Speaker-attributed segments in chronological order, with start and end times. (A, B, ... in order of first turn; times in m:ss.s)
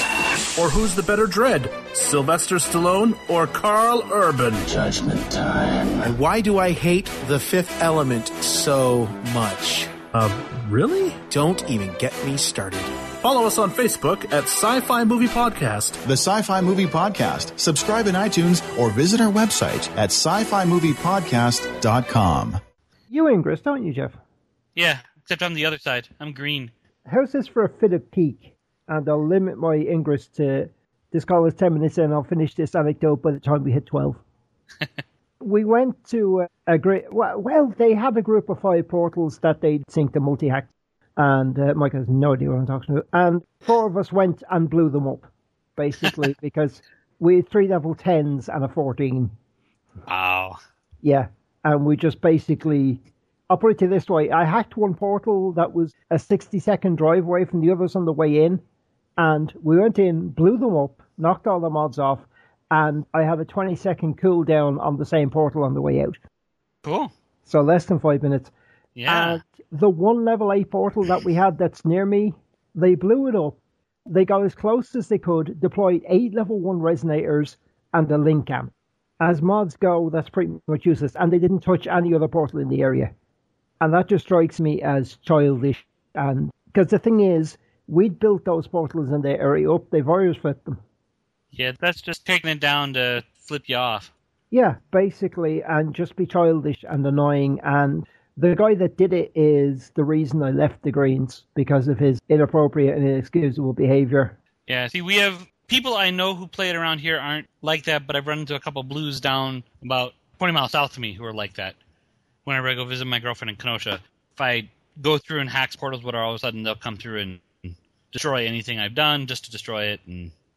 0:00.6-0:05.3 A
0:06.0-0:10.1 B
0:10.1-0:11.3 A
0:11.3-0:13.0 B
0:13.2-0:16.0 A
0:16.0-0:22.6 C
0:23.1-0:24.2 D
0:24.8-0:26.7 E
0:27.1-0:34.2 D
0:35.4-0:49.3 D
0:50.1-0:50.6 E
0:51.0-0:58.6 D
0:59.2-1:06.2 D
1:06.8-1:07.1 E
1:07.5-1:08.5 D
1:09.0-1:09.4 E
1:09.1-1:23.1 D
1:23.8-1:30.8 D
1:31.5-1:34.1 E
1:34.5-1:44.4 D
1:44.7-1:51.8 E
1:52.4-2:00.3 E